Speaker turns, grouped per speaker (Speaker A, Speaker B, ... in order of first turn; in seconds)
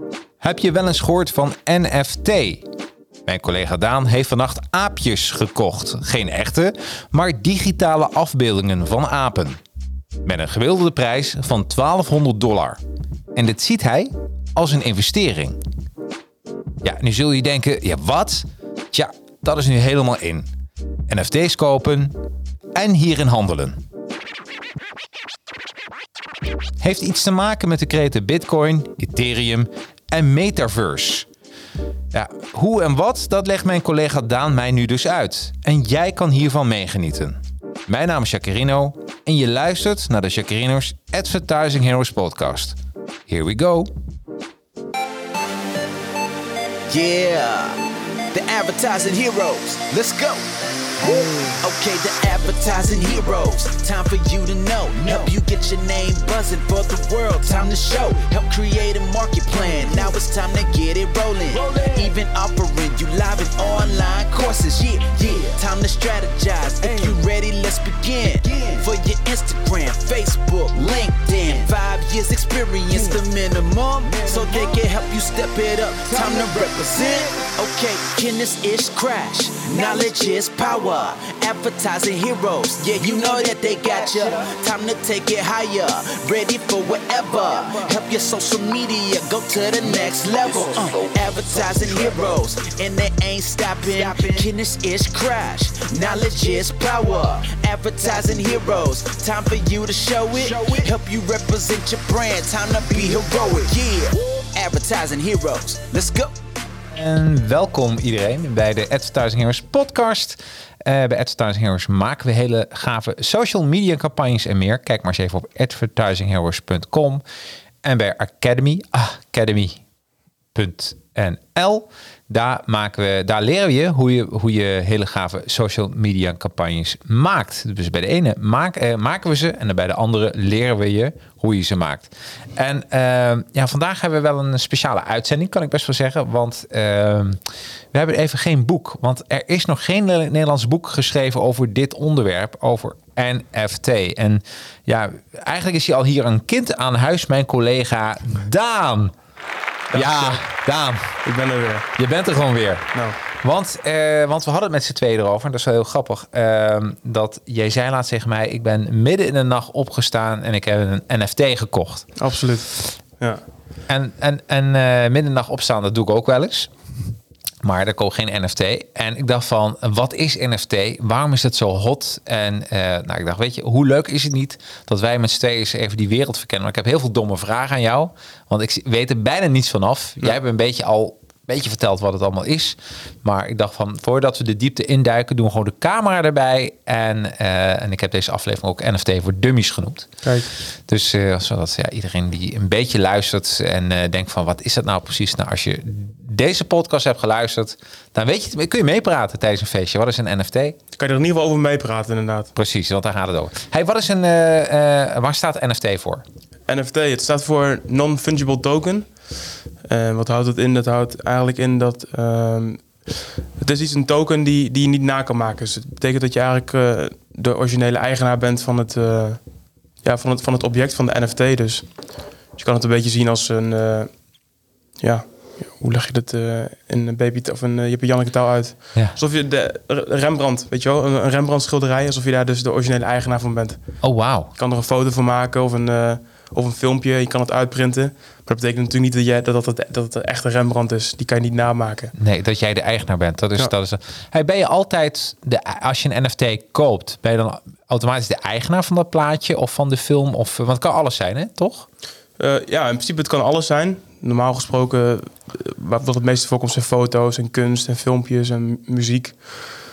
Speaker A: 0.4-2.6, 3.2-9.6, 10.2-12.8, 13.3-15.6, 16.8-20.5, 21.1-22.1, 22.7-23.8, 26.8-31.3, 32.1-42.8, 43.3-43.9, 106.9-117.2, 117.8-119.8, 120.5-149.1, 149.9-151.1, 152.0-162.2, 163.9-166.7, 167.6-190.1, 190.7-200.8, 202.6-206.2, 234.0-234.5, 242.2-251.9
Speaker B: 46.9-106.3
Speaker C: 149.9-150.4, 151.2-151.9, 162.2-163.4, 190.2-190.5, 200.9-202.5, 206.7-209.1, 209.8-219.4, 220.0-221.9, 222.6-224.1, 225.0-233.8, 234.6-242.1, 252.4-259.5